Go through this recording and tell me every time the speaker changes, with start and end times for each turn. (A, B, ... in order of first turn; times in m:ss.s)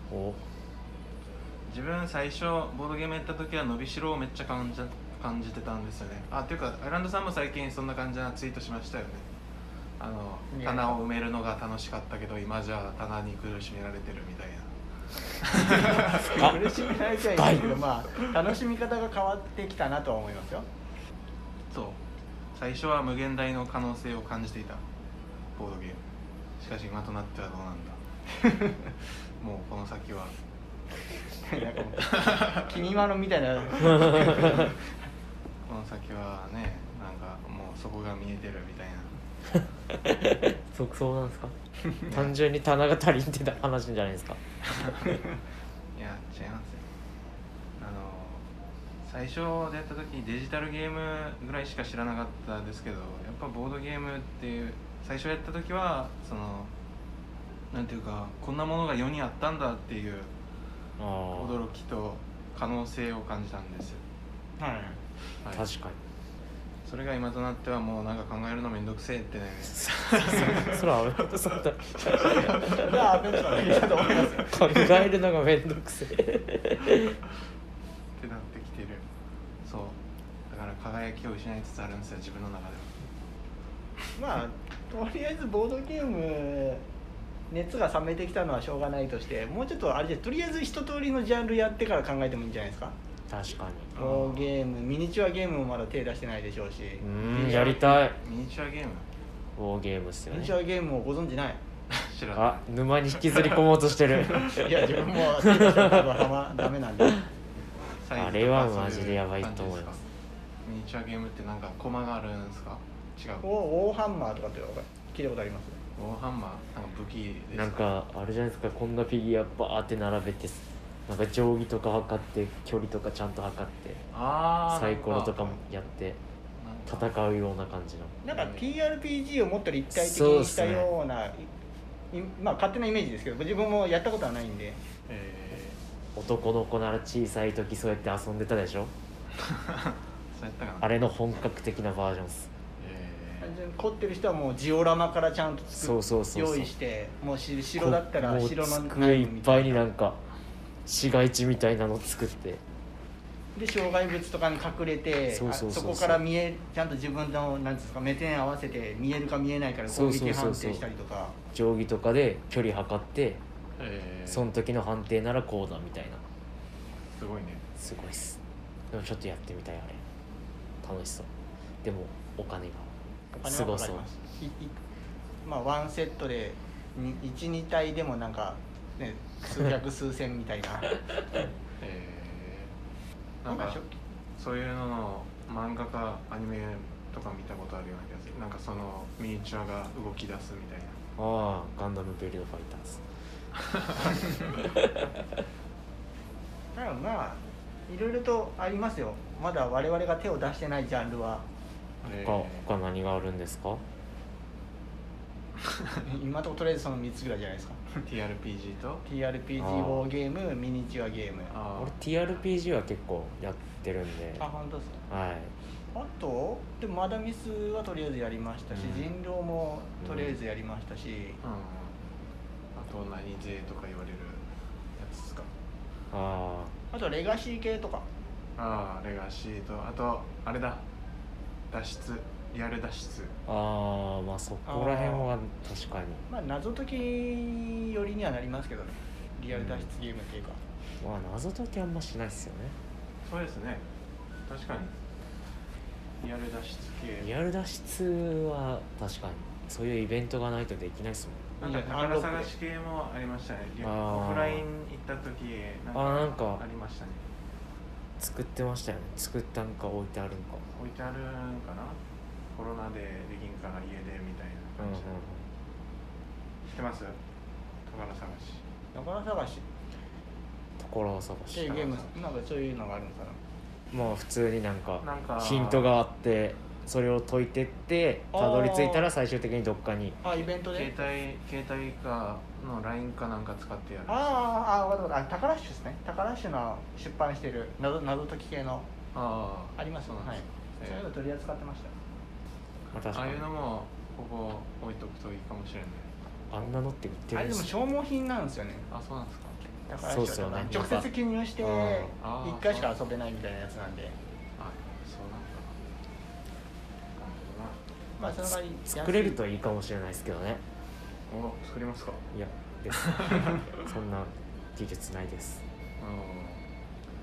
0:00.1-0:00.4 A
0:01.6-0:09.3 B
0:10.0-0:14.7 B
0:10.5-0:11.0 C
0:15.3-0:16.5 B
0:15.9-0:18.3 A
0:15.9-0:20.7 C
0:21.7-0:22.0 B
0:22.5-0:24.8 B
0:25.6-0:26.0 B
0:26.6-0:28.0 B
0:28.4-0:28.9 C
0:29.4-0:30.4 B
0:31.4-0:34.9 C
0:32.1-0:32.7 B
0:35.7-0:39.2 B
0:39.9-0:41.6 A
0:42.1-0:44.4 A
0:42.1-0:42.4 B
0:44.7-0:45.2 B
0:46.0-0:46.9 B
0:47.8-0:48.5 B
0:49.0-0:56.7 B
0:57.7-1:00.3 B
1:01.0-1:01.6 A
1:01.3-1:04.0 B
1:04.6-1:05.0 C
1:05.4-1:05.7 B
1:05.5-1:06.0 A
1:06.8-1:11.2 B
1:09.8-1:17.2 A
1:11.9-1:13.8 B
1:12.4-1:15.1 C
1:18.2-1:19.0 B
1:19.6-1:23.0 B
1:24.2-1:26.8 C
1:27.5-1:33.0 C
1:33.3-1:33.9 A
1:34.0-1:34.5 B
1:34.0-1:37.9 C
1:37.0-1:38.2 A
1:37.3-1:39.1 B
1:39.6-1:40.6 A
1:40.3-1:41.6 C
1:41.9-1:42.7 B
1:42.4-1:46.3 A
1:43.2-1:43.6 B
1:44.4-1:47.2 C
1:48.0-1:50.0 B
1:48.2-1:49.9 A
1:50.6-1:53.5 B
1:53.4-1:55.8 C
1:56.0-1:57.9 B
1:57.5-2:04.0 A
2:04.1-2:05.6 B
2:04.7-2:06.2 A
2:06.6-2:07.2 B
2:06.9-2:08.2 A
2:08.2-2:11.5 C
2:08.3-2:08.7 B
2:09.9-2:10.9 A
2:12.1-2:14.8 C
2:15.1-2:15.8 B
2:16.2-2:18.9 A
2:19.4-2:21.2 B
2:20.8-2:22.5 A
2:22.8-2:23.5 B
2:23.4-2:29.8 C
2:25.7-2:26.7 A
2:27.8-2:30.2 A
2:30.8-2:32.6 A
2:33.6-2:41.4 C
2:35.3-2:36.2 A
2:39.9-2:40.8 A
2:41.5-2:43.4 A
2:43.8-2:44.5 B
2:44.3-2:46.2 A
2:47.1-2:47.6 B
2:47.8-2:48.4 A
2:48.9-2:50.0 A
2:50.8-2:51.3 A
2:51.8-2:54.1 A
2:53.3-2:54.8 C
2:55.4-3:00.9 C
3:01.8-3:02.7 B
3:03.4-3:03.8 B
3:03.5-3:03.9 C
3:04.4-3:11.0 B
3:11.2-3:13.0 A
3:13.6-3:14.2 B
3:14.4-3:15.1 A
3:16.8-3:21.4 C
3:22.0-3:22.7 B
3:22.0-3:23.8 A
3:25.6-3:26.0 B
3:26.0-3:28.0 C
3:28.0-3:29.0 B
3:29.1-3:31.5 C
3:29.6-3:30.1 A
3:31.5-3:32.0 B
3:31.8-3:34.5 A
3:34.4-3:35.0 C
3:35.1-3:35.5 A
3:35.9-3:41.4 C
3:38.7-3:39.1 A
3:40.0-3:40.4 A
3:41.4-3:42.0 B
3:42.8-3:44.4 B
3:45.0-3:45.5 B
3:46.1-3:46.8 A
3:46.9-3:48.1 C
3:48.6-3:50.8 B
3:51.7-3:53.4 B
3:53.5-3:56.3 A
3:54.7-3:55.3 C
3:56.3-4:00.6 C
3:59.5-3:59.9 A
4:01.0-4:02.8 A
4:03.2-4:03.9 B
4:04.5-4:04.9 B
4:06.2-4:07.3 B
4:07.2-4:11.5 A
4:11.6-4:17.2 B
4:11.6-4:12.5 C
4:13.8-4:14.6 A
4:15.9-4:16.6 A
4:18.2-4:20.6 A
4:20.7-4:22.0 B
4:22.5-4:25.2 B
4:24.8-4:25.4 A
4:26.7-4:27.2 B
4:27.9-4:28.6 B
4:28.9-4:29.6 C
4:30.8-4:31.9 A
4:31.5-4:33.4 C
4:31.8-4:32.1 B
4:33.9-4:40.2 A
4:35.0-4:35.9 B
4:38.3-4:39.1 C
4:40.2-4:41.1 C
4:40.4-4:44.4 B
4:44.1-4:48.9 C
4:49.1-4:51.1 B
4:49.8-4:51.9 C
4:52.9-4:53.5 A
4:53.0-4:56.1 B
4:56.5-4:57.7 A
4:57.3-4:58.9 C
4:58.9-4:59.6 B
4:59.9-5:04.2 C
5:00.0-5:02.1 A
5:02.2-5:03.0 B
5:04.6-5:05.8 B
5:07.2-5:07.8 B
5:08.2-5:09.4 C
5:08.2-5:10.6 A
5:11.3-5:12.2 B
5:12.3-5:15.6 A
5:13.0-5:13.6 B
5:16.0-5:16.7 B